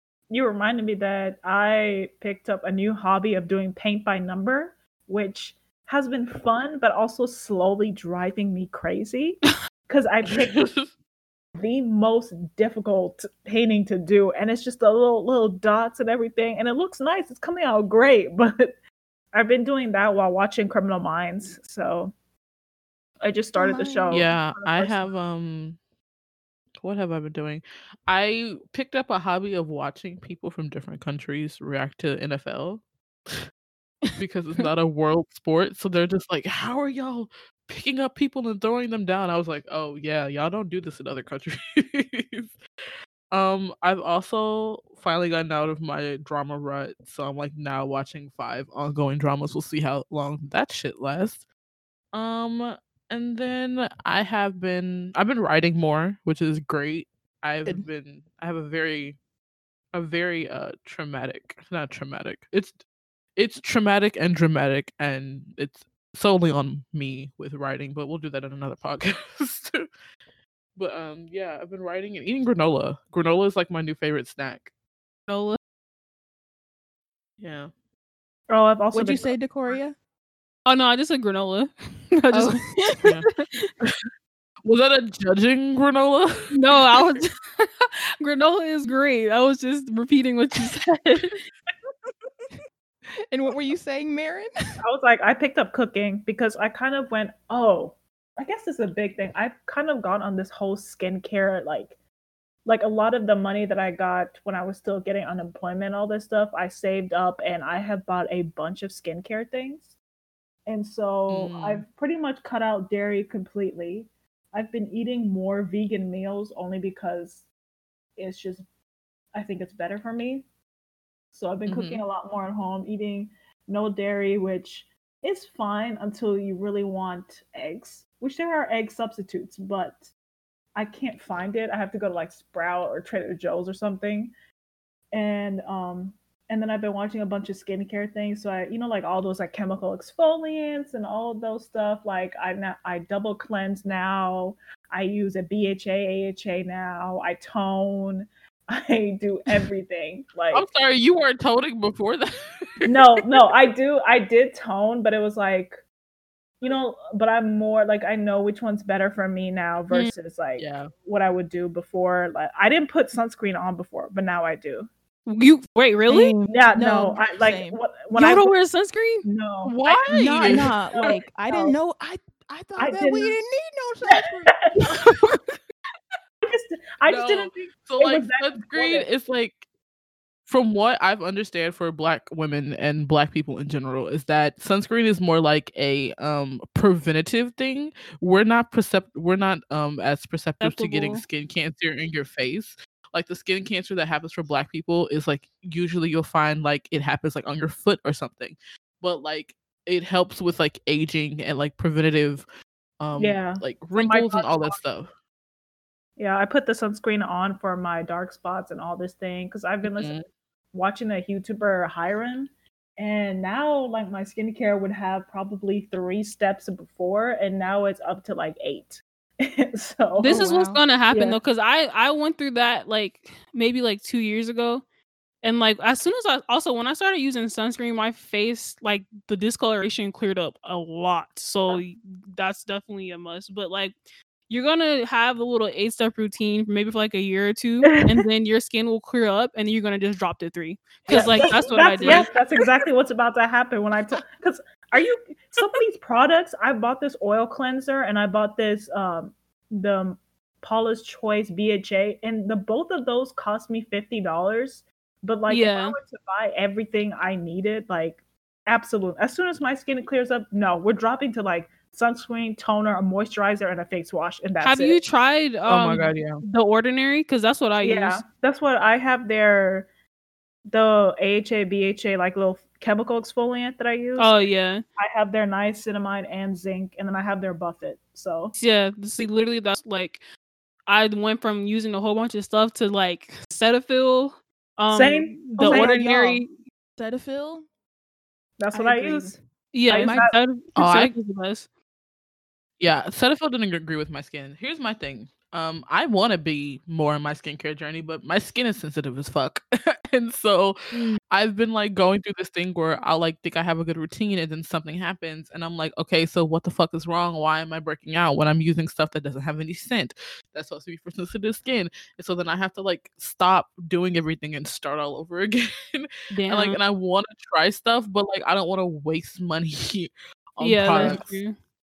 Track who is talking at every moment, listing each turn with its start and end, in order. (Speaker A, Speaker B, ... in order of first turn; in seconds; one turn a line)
Speaker A: 0.3-10.7
Speaker B: 10.3-10.9
Speaker A: 11.6-18.8
Speaker A: 19.3-22.1
Speaker A: 23.2-25.1
Speaker C: 23.6-24.3
Speaker B: 24.1-25.8
Speaker B: 26.8-33.4
Speaker B: 34.1-42.6
Speaker B: 43.3-51.5
Speaker B: 52.1-59.2
Speaker B: 59.9-62.8
Speaker B: 63.4-69.9
Speaker B: 70.8-74.7
Speaker D: 75.3-75.6
Speaker B: 77.4-77.7
Speaker A: 78.5-79.4
Speaker C: 78.9-80.0
Speaker D: 80.7-83.4
Speaker C: 82.3-83.2
Speaker B: 83.8-84.1
Speaker B: 84.7-87.1
Speaker D: 86.5-91.4
Speaker C: 93.2-94.5
Speaker A: 94.8-102.0
Speaker A: 102.7-110.0
Speaker A: 110.7-117.5
Speaker B: 111.3-111.8
Speaker A: 118.2-118.7
Speaker A: 119.3-120.5
Speaker A: 121.3-130.1
Speaker B: 121.7-122.0
Speaker A: 130.8-134.3
Speaker A: 135.1-150.7
Speaker B: 150.5-153.3
Speaker A: 152.8-155.8
Speaker A: 156.6-164.9
Speaker B: 159.9-160.9
Speaker D: 165.3-166.4
Speaker C: 166.1-167.8
Speaker A: 166.5-168.5
Speaker D: 168.2-169.3
Speaker A: 169.2-171.8
Speaker B: 169.7-170.7
Speaker C: 170.1-175.4
Speaker A: 172.8-173.4
Speaker A: 174.1-175.1
Speaker A: 176.4-179.1
Speaker B: 177.1-179.7
Speaker B: 180.5-202.5
Speaker D: 190.6-191.2
Speaker B: 203.0-205.1
Speaker A: 203.2-204.8
Speaker A: 206.2-220.4
Speaker B: 209.8-210.2
Speaker D: 220.2-224.8
Speaker C: 220.3-220.8
Speaker A: 221.1-221.4
Speaker D: 225.4-234.0
Speaker D: 234.5-242.3
Speaker A: 237.9-238.2
Speaker A: 241.1-265.0
Speaker C: 241.1-242.3
Speaker D: 255.5-256.0
Speaker D: 264.6-268.2
Speaker B: 265.7-266.4
Speaker A: 267.8-269.9
Speaker A: 270.7-274.3
Speaker D: 274.2-274.8
Speaker A: 275.0-278.6
Speaker D: 278.6-280.2
Speaker D: 280.9-286.5
Speaker A: 284.9-286.1
Speaker C: 285.6-286.4
Speaker C: 287.0-287.7
Speaker A: 288.6-289.4
Speaker C: 288.7-289.4
Speaker D: 289.7-291.7
Speaker A: 289.9-290.4
Speaker B: 290.8-291.1
Speaker B: 292.8-321.3
Speaker D: 316.3-316.8
Speaker D: 320.6-321.6
Speaker C: 320.9-321.2